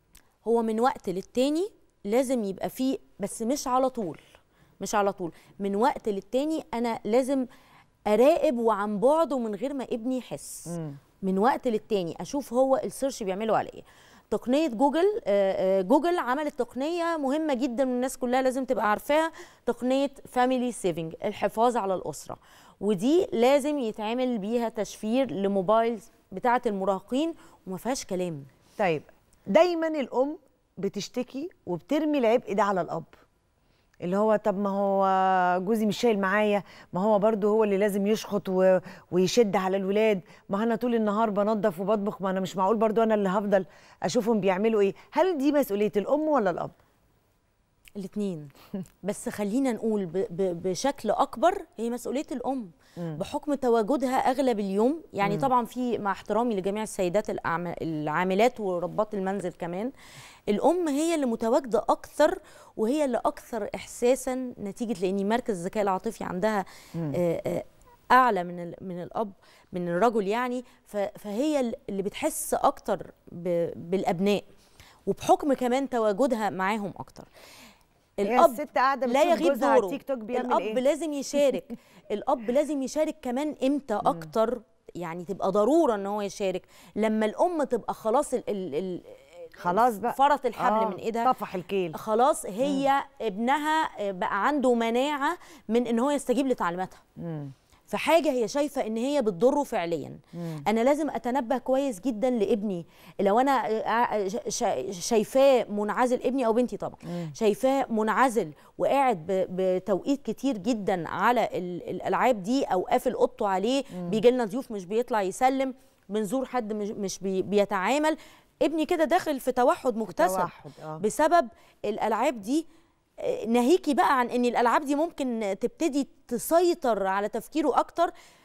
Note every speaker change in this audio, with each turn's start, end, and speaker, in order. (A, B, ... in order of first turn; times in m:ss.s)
0:00.4-0:04.2 A
0:04.8-0:07.4 A
0:08.1-0:28.5 A
0:10.7-0:11.0 B
0:28.8-0:33.1 B
0:34.0-0:46.7 B
0:48.0-0:48.5 A
0:49.0-0:59.9 A
0:55.2-0:55.5 B
1:00.5-1:14.4 A
1:15.0-1:17.3 A
1:18.2-1:31.3 A
1:18.2-1:20.8 B
1:24.0-1:24.3 B
1:29.6-1:31.9 B
1:31.9-1:37.0 A
1:37.2-1:37.5 B
1:37.9-2:02.6 A
1:40.4-1:40.6 B
1:47.1-1:47.3 B
1:53.9-1:54.2 B
2:00.1-2:01.0 B
2:03.2-2:08.1 A